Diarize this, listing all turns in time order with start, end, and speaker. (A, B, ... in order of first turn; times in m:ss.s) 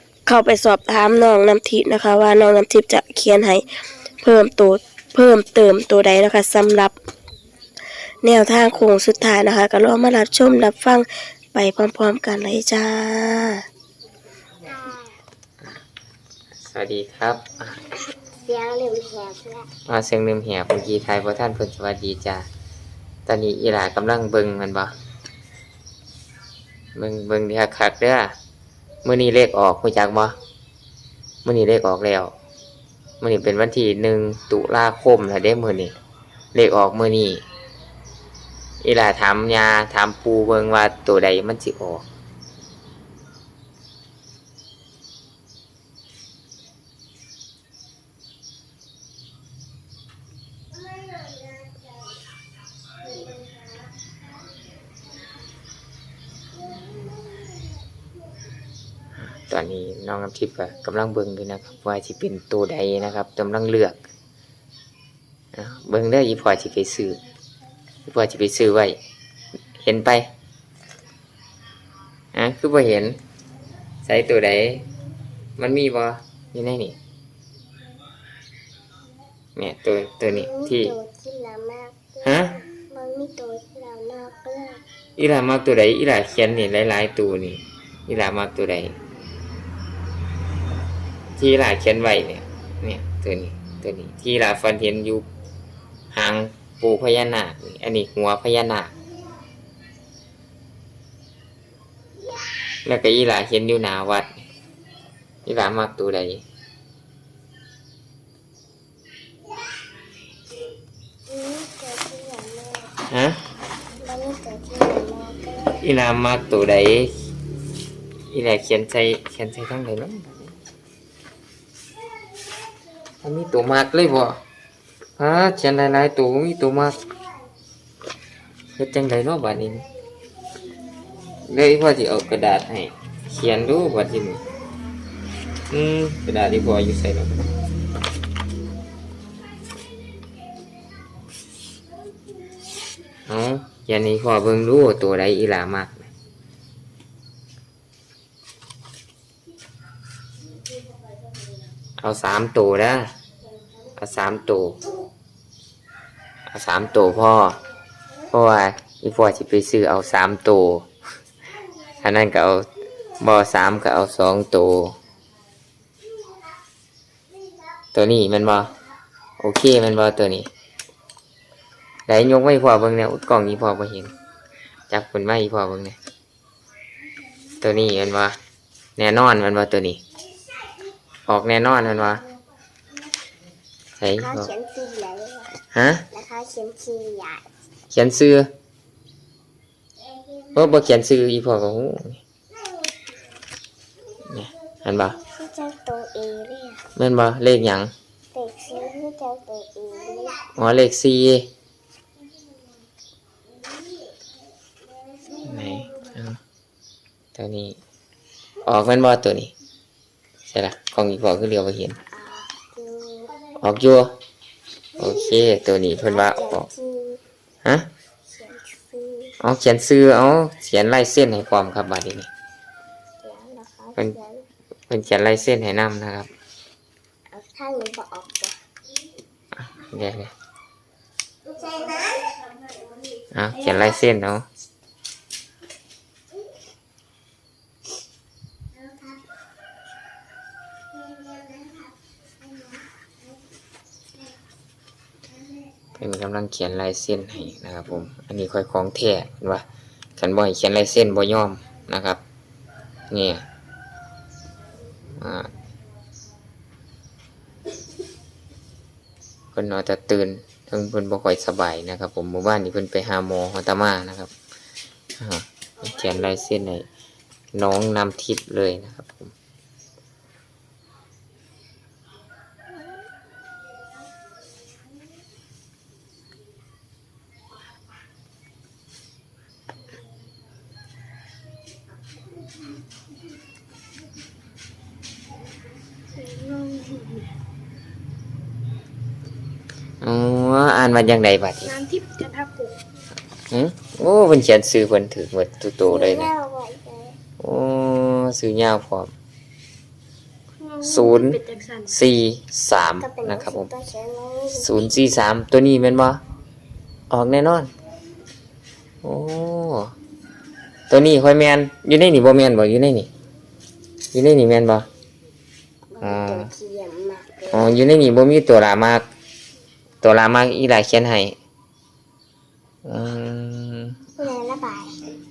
0:00.3-0:03.7 A
0:04.2-0:07.0 A
0:08.2-0:13.6 A
0:14.6-0:15.2 B
0:16.6-0:17.8 C
0:18.4-0:19.7 B
0:19.9-0:22.5 C
0:23.3-0:24.9 C
0:27.0-0:28.3 C
0:29.0-0:30.4 C
0:31.4-0:32.3 C
0:33.2-0:36.0 C
0:36.5-0:37.4 C
0:38.8-0:42.0 C
0:59.3-1:04.0 C
1:05.5-1:07.2 C
1:08.1-1:09.0 C
1:09.8-1:10.3 C
1:12.3-1:13.2 C
1:14.0-1:14.9 C
1:15.6-1:17.0 C
1:19.6-1:20.9 C
1:20.3-1:24.8 B
1:22.2-1:22.5 C
1:25.2-1:29.0 C
1:31.4-1:35.3 C
1:36.1-1:38.9 C
1:42.8-1:44.4 C
1:45.5-1:46.4 C
1:51.3-1:53.0 B
1:53.1-1:53.4 C
1:54.0-1:55.9 B
1:55.8-1:57.1 C
1:58.3-2:00.6 C
2:03.2-2:04.4 C
2:05.2-2:07.0 C
2:08.8-2:09.9 C
2:11.4-2:14.4 C
2:15.7-2:17.5 C
2:23.3-2:26.1 C
2:32.0-2:33.1 C
2:34.0-2:34.8 C
2:36.5-2:37.6 C
2:38.3-2:40.9 C
2:42.0-2:42.7 C
2:43.2-2:45.0 C
2:47.9-2:48.7 C
2:49.4-2:50.5 C
2:52.1-2:54.1 C
2:54.9-2:56.0 C
2:57.6-2:58.4 C
2:59.0-3:00.0 C
3:01.3-3:02.2 C
3:04.0-3:04.5 C
3:04.2-3:05.6 B
3:05.7-3:06.0 C
3:06.1-3:07.5 B
3:07.9-3:08.5 C
3:10.5-3:12.2 C
3:14.3-3:15.2 C
3:15.2-3:16.8 B
3:17.0-3:17.9 C
3:18.3-3:20.4 B
3:20.6-3:21.5 C
3:25.4-3:26.4 C
3:27.4-3:27.8 C
3:28.6-3:29.5 C
3:30.5-3:32.0 C
3:32.1-3:33.4 B
3:33.6-3:34.2 C
3:35.0-3:36.7 C
3:36.0-3:37.2 B
3:38.3-3:39.3 B
3:39.4-3:42.3 C
3:43.2-3:44.5 B
3:44.9-3:46.3 C
3:47.3-3:48.6 B
3:49.7-3:50.3 C
3:51.5-3:52.4 B
3:53.3-3:54.5 C
4:06.0-4:09.6 C
4:10.2-4:12.2 C
4:13.1-4:13.4 C
4:15.2-4:15.5 C
4:19.5-4:24.3 C
4:25.2-4:26.8 C
4:27.5-4:29.3 C
4:50.0-4:51.8 C
4:52.4-4:52.7 A
4:53.5-4:56.3 C
4:55.9-4:57.2 B
4:57.4-4:59.1 C
5:00.8-5:03.7 C
5:03.0-5:04.8 B
5:04.5-5:06.2 C
5:07.1-5:07.7 C
5:09.0-5:09.9 C
5:10.9-5:13.1 C
5:14.1-5:14.9 C
5:15.9-5:17.7 B
5:16.0-5:16.5 C
5:17.5-5:19.0 C
5:20.0-5:21.4 C
5:22.8-5:24.0 C
5:24.2-5:25.0 B